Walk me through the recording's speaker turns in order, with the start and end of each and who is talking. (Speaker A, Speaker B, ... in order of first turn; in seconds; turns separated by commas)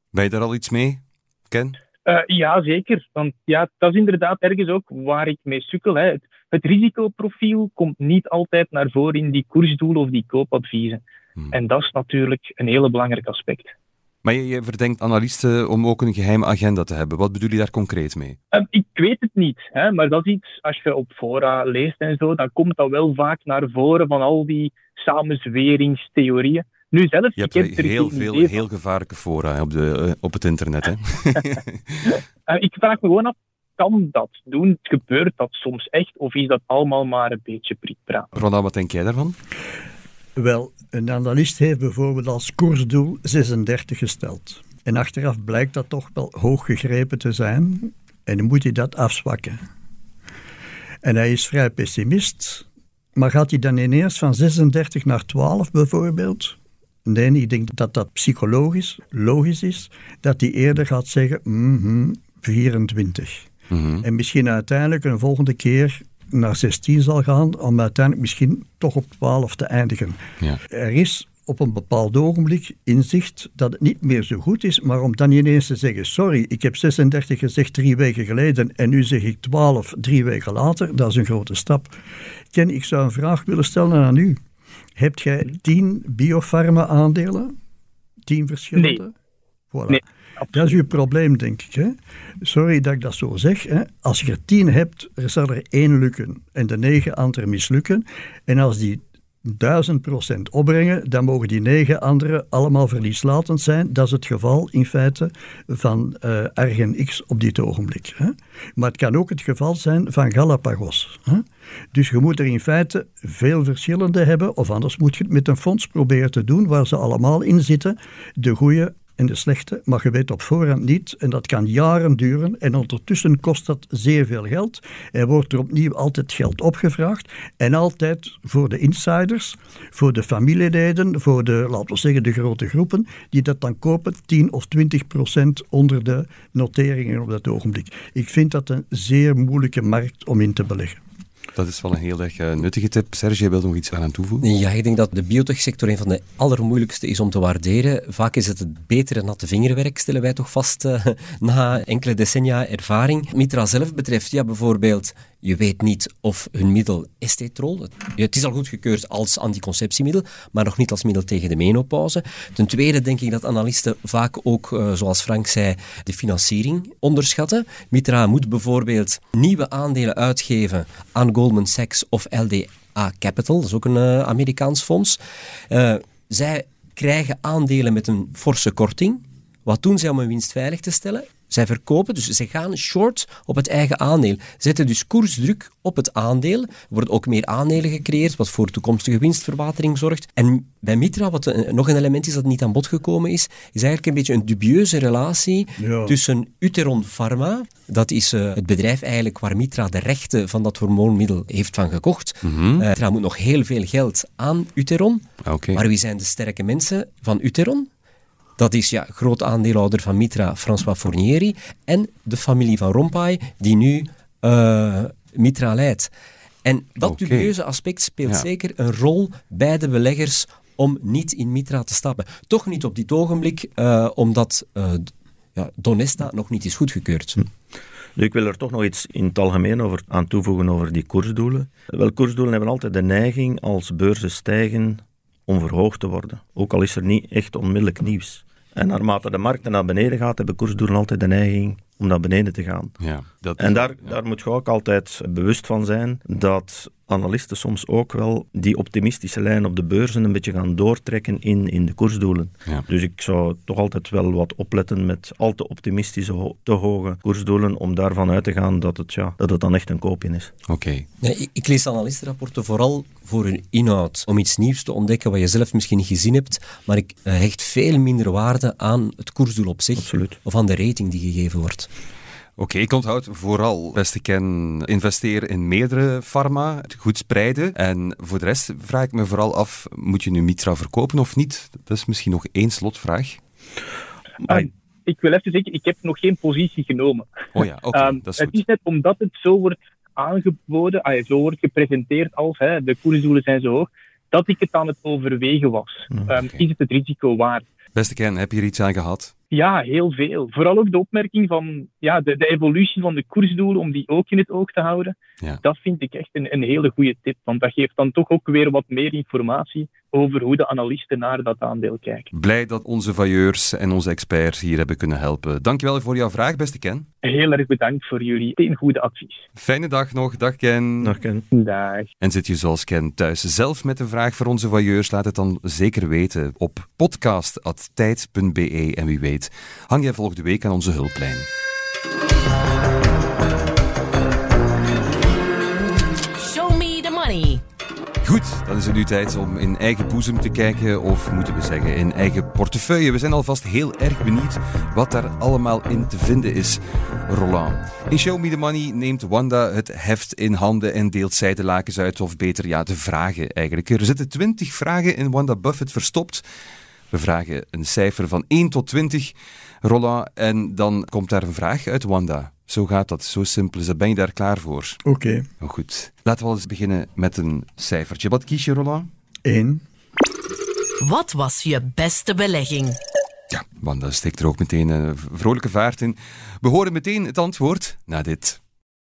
Speaker A: 0.1-1.8, Speaker B: 2.0-13.7, Speaker A: 14.2-18.4, Speaker B: 18.5-28.6, Speaker A: 27.4-32.2, Speaker B: 32.5-38.3, Speaker A: 38.3-39.4, Speaker C: 40.4-49.6, Speaker C: 51.0-63.5, Speaker A: 63.7-64.0, Speaker C: 64.0-81.9, Speaker C: 82.5-84.4, Speaker C: 85.0-87.5, Speaker C: 88.3-89.1, Speaker C: 89.7-141.0, Speaker B: 89.9-90.7, Speaker A: 141.6-144.4, Speaker D: 144.4-175.2, Speaker D: 175.7-207.9, Speaker C: 195.8-196.2, Speaker A: 202.4-202.8, Speaker A: 205.4-205.8, Speaker D: 208.6-216.1, Speaker D: 216.6-227.4, Speaker A: 217.0-217.5, Speaker E: 228.2-243.0, Speaker A: 243.0-244.2, Speaker E: 243.6-260.5, Speaker A: 260.7-261.1, Speaker D: 261.2-271.9, Speaker E: 270.0-270.4, Speaker A: 272.6-283.4, Speaker B: 284.4-287.3, Speaker A: 287.5-288.6, Speaker B: 287.9-297.7, Speaker A: 296.3-296.6, Speaker A: 297.9-299.3, Speaker B: 299.5-312.3, Speaker A: 312.3-317.1, Speaker B: 317.2-319.4, Speaker A: 319.6-321.2, Speaker E: 321.0-321.4, Speaker B: 321.5-322.1, Speaker A: 322.2-331.5, Speaker F: 336.3-337.6, Speaker A: 338.2-356.4, Speaker A: 357.1-365.0, Speaker C: 365.0-365.5, Speaker A: 365.6-369.1, Speaker C: 369.4-369.8, Speaker F: 371.0-373.0, Speaker A: 373.5-378.6